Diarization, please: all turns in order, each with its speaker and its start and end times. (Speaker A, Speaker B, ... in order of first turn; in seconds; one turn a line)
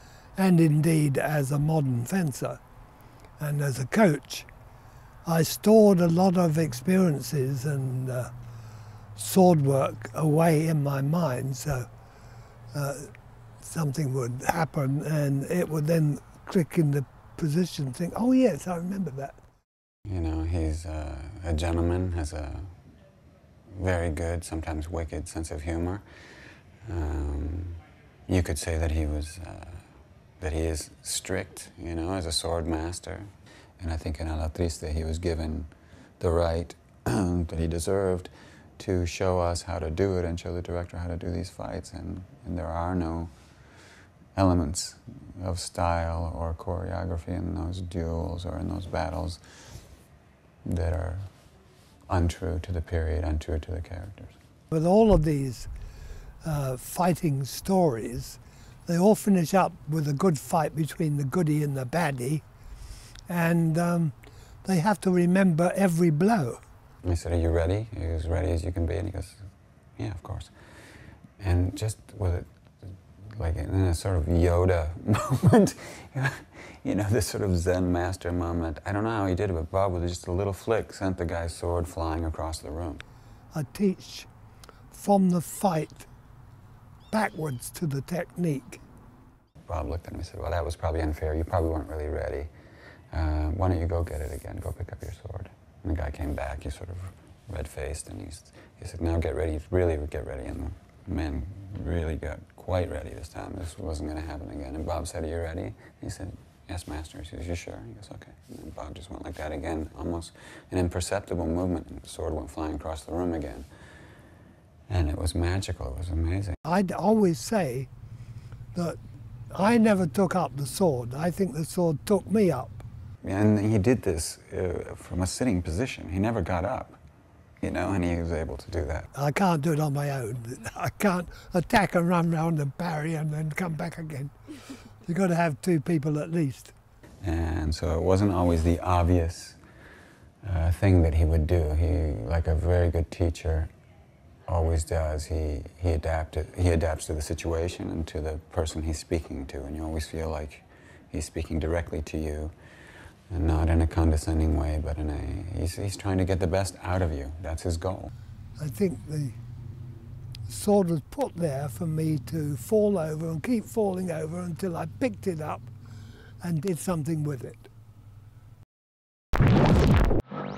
Speaker A: 0.4-2.6
Speaker A: 3.4-4.5
Speaker A: 5.2-8.3
Speaker A: 9.2-11.9
Speaker A: 12.7-13.1
Speaker A: 13.6-19.4
Speaker B: 20.1-22.8
Speaker B: 23.7-26.0
Speaker B: 26.9-29.9
Speaker B: 30.4-43.3
Speaker B: 44.4-49.4
Speaker B: 50.6-51.3
Speaker B: 52.1-54.3
Speaker A: 54.7-55.7
Speaker A: 56.4-62.4
Speaker A: 63.3-64.1
Speaker A: 64.6-66.6
Speaker B: 67.0-70.5
Speaker B: 71.4-83.0
Speaker A: 83.5-84.3
Speaker A: 84.9-86.1
Speaker A: 87.1-88.8
Speaker B: 89.7-92.5
Speaker B: 93.1-113.7
Speaker B: 114.9-116.6
Speaker A: 116.7-117.9
Speaker A: 119.5-122.8
Speaker B: 123.2-127.0
Speaker B: 127.6-129.1
Speaker A: 129.1-134.3
Speaker A: 135.0-136.8
Speaker B: 137.2-139.6
Speaker B: 140.4-143.7
Speaker B: 144.5-152.5
Speaker B: 153.3-158.1
Speaker A: 158.6-159.4
Speaker A: 160.5-165.7
Speaker A: 166.4-167.7